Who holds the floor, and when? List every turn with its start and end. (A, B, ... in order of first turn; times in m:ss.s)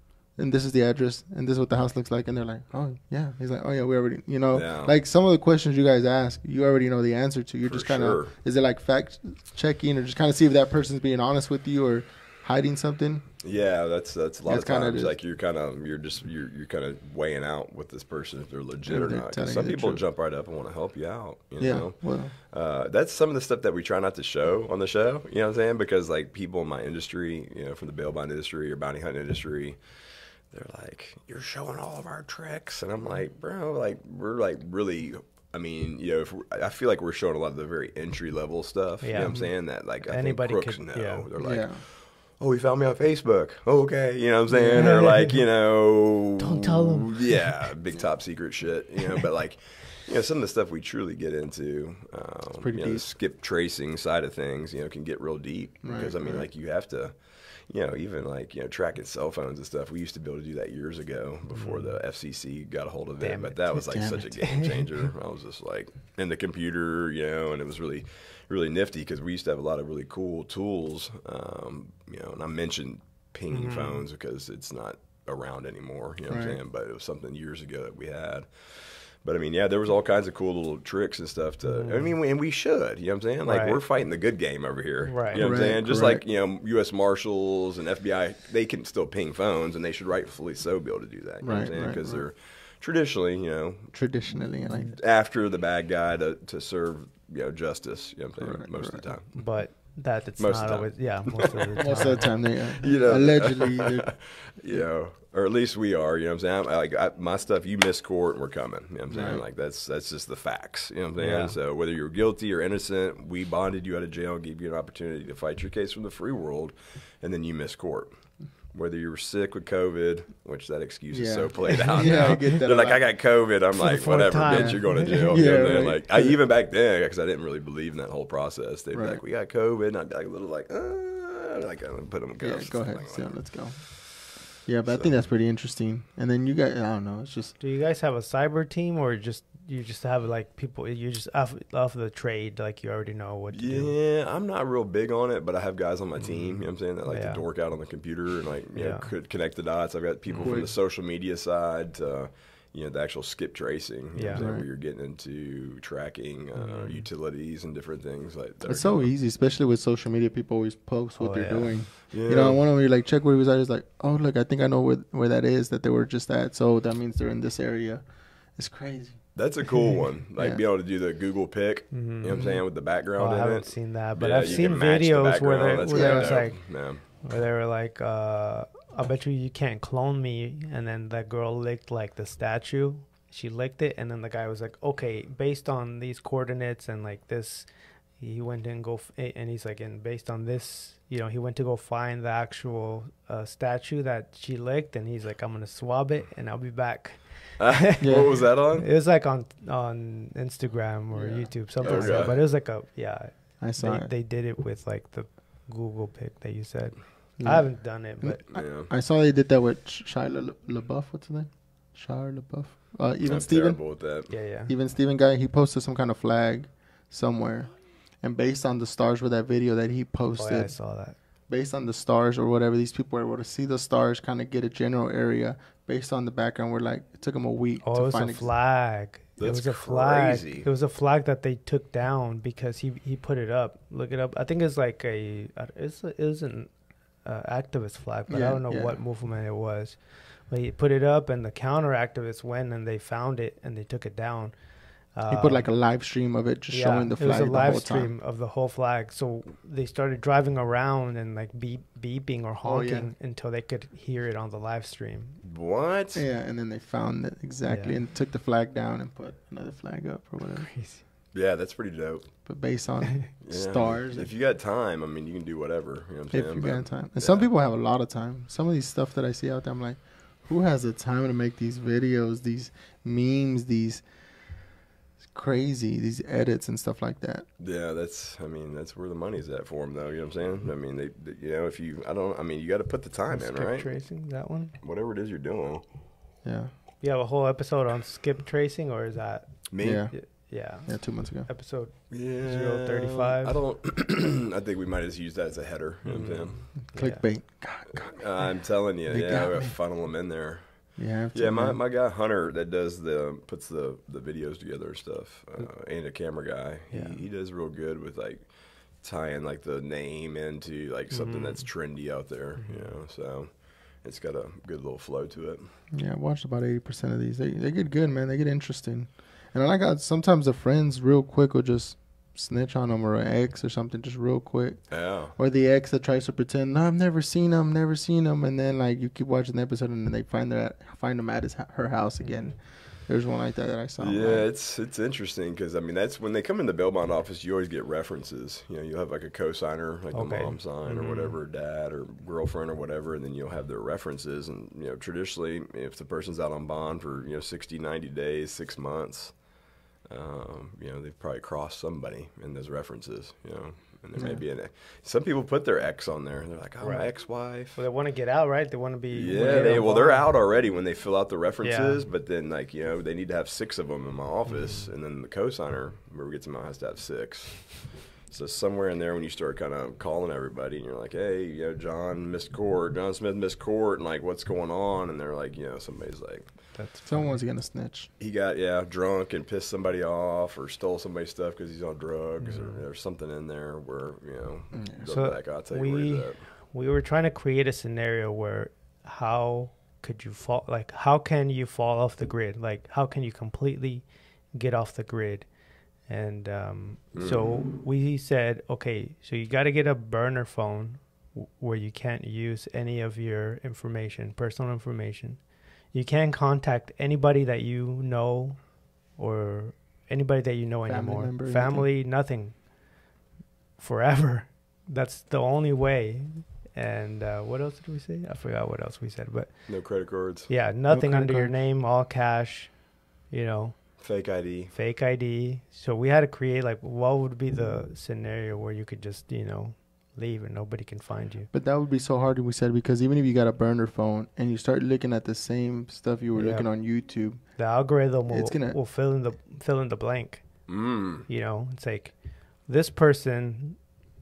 0:00.4-0:13.2 A
0:04.5-0:04.9 B
0:07.6-0:08.3 B
0:13.4-1:33.9 B
0:14.4-0:15.1 A
0:18.8-0:20.0 A
0:21.6-0:22.3 A
0:39.0-0:41.2 C
0:41.4-0:41.8 A
0:44.5-0:44.9 A
0:44.7-0:45.5 C
0:46.4-0:47.8 C
0:52.6-0:53.0 A
0:55.8-0:56.5 A
1:01.5-1:01.9 C
1:03.2-1:04.8 C
1:03.9-1:04.2 A
1:13.5-1:14.0 C
1:16.3-1:16.6 A
1:21.6-1:22.1 C
1:23.4-1:23.8 C
1:25.1-1:25.6 C
1:25.3-1:26.2 A
1:31.4-1:32.2 A
1:33.9-1:35.0 A
1:34.9-1:39.4 B
1:38.4-1:39.1 A
1:39.3-1:42.5 C
1:40.4-1:58.2 B
1:41.8-1:44.8 A
1:49.1-1:49.4 A
1:51.2-1:51.6 C
1:58.7-2:13.4 B
2:01.1-2:03.0 A
2:01.8-2:02.4 C
2:03.8-2:05.7 C
2:04.5-2:06.4 A
2:08.9-2:09.2 A
2:12.4-2:17.5 A
2:14.8-2:15.2 B
2:17.6-2:24.0 C
2:23.5-2:39.1 B
2:26.2-2:27.4 C
2:28.7-2:29.1 C
2:30.4-2:30.7 A
2:34.1-2:34.5 C
2:34.3-2:34.7 A
2:36.6-2:37.1 C
2:38.6-2:48.0 A
2:41.2-2:42.0 C
2:42.1-2:42.6 B
2:48.6-2:49.2 A
2:49.3-2:57.0 B
2:50.4-2:50.6 A
2:51.9-2:52.6 C
2:53.1-3:28.5 C
2:55.9-2:56.5 A
3:17.6-3:18.9 B
3:18.0-3:18.3 A
3:21.1-3:22.3 A
3:21.8-3:22.4 B
3:23.6-3:24.1 A
3:27.4-3:33.9 A
3:28.5-3:28.9 B
3:33.2-3:34.3 B
3:34.3-3:34.7 C
3:34.6-3:48.5 A
3:40.3-3:41.2 C
3:47.8-4:04.6 C
3:49.4-3:50.7 B
3:58.3-3:59.0 A
4:05.1-4:05.7 C
4:05.3-4:08.1 A
4:06.7-4:15.4 C
4:12.6-4:13.1 A
4:15.4-4:16.2 B
4:16.1-4:20.7 A
4:17.7-4:18.0 C
4:20.6-4:21.0 C
4:21.3-4:22.3 B
4:22.4-4:24.3 A
4:23.4-4:27.5 B
4:26.3-4:34.0 A
4:35.3-4:37.4 A
4:37.6-4:43.9 B
4:43.3-4:44.8 C
4:44.8-4:45.8 B
4:46.4-4:46.7 A
4:47.0-4:53.6 C
4:49.7-4:50.0 B
4:49.8-4:51.5 A
4:52.1-4:56.6 B
4:56.0-4:57.2 C
4:56.9-4:59.8 A
4:57.9-5:15.7 B
5:01.0-5:01.8 A
5:06.9-5:07.2 C
5:11.1-5:11.7 C
5:15.9-5:34.5 A
5:24.9-5:25.3 B
5:32.2-5:32.6 C
5:34.0-5:49.4 B
5:40.1-5:41.4 C
5:50.1-5:57.8 B
5:54.1-5:54.4 A
5:56.8-6:00.3 C
5:59.1-6:16.5 B
5:59.4-5:59.8 A
6:01.6-6:02.0 C
6:04.5-6:04.9 C
6:16.7-6:17.4 C
6:17.0-6:18.1 A
6:18.2-6:26.4 B
6:22.4-6:22.8 C
6:24.7-6:25.1 A
6:25.1-6:35.5 C
6:36.1-6:52.7 C
6:37.1-6:37.6 B
6:50.8-6:51.9 A
6:53.8-7:02.7 C
6:59.7-7:00.5 B
7:00.9-7:01.5 A
7:03.3-7:04.0 C
7:04.0-7:04.7 B
7:04.7-7:11.5 C
7:11.5-7:17.4 A
7:16.4-7:16.7 C
7:17.6-7:20.7 C
7:18.3-7:18.8 A
7:20.7-7:21.3 B
7:21.3-7:23.8 C